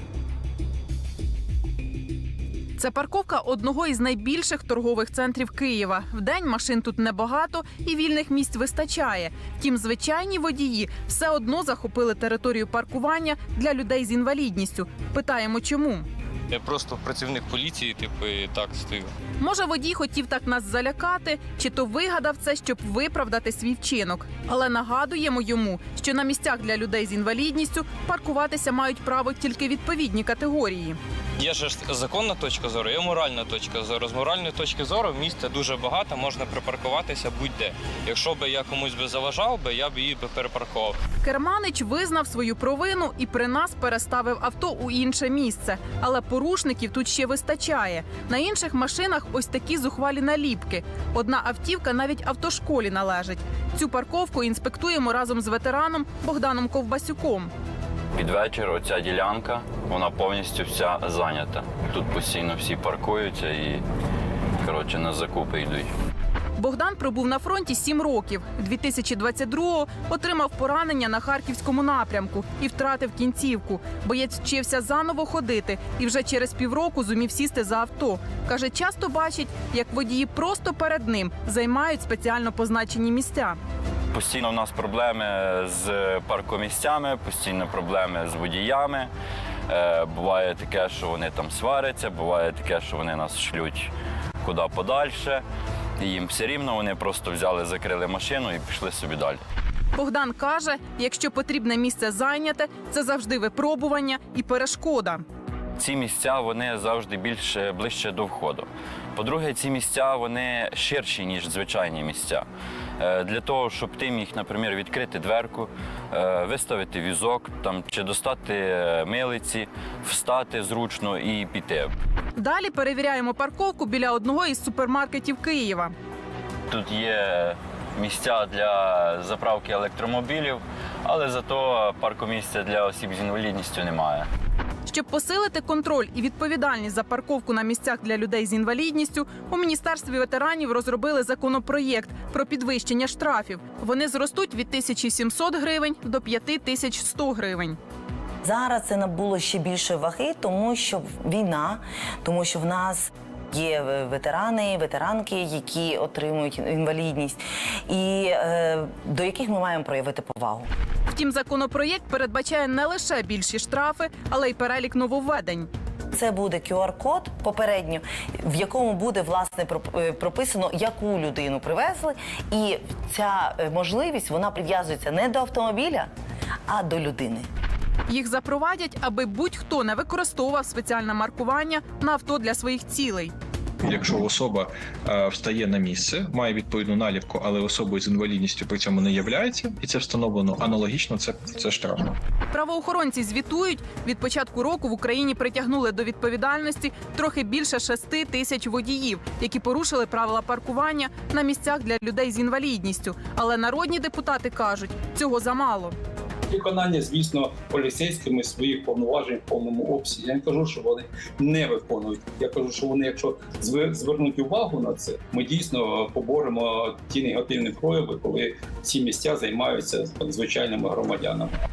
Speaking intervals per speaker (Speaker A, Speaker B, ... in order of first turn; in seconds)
Speaker A: 2.8-16.1, 19.4-31.0, 41.2-57.5, 66.6-83.6, 99.9-105.2, 122.4-125.9, 134.9-147.8, 161.1-165.7, 178.1-183.3, 192.5-205.9
Speaker B: 16.5-19.1, 31.4-41.0
Speaker C: 58.1-63.8, 64.6-65.9, 84.1-89.1, 89.7-93.9, 94.4-95.4, 96.0-99.4, 105.8-112.5, 113.0-121.9, 126.7-134.3
Speaker D: 148.4-160.7, 166.1-176.1, 176.7-177.5
Speaker E: 183.8-192.2
Speaker F: 206.5-221.5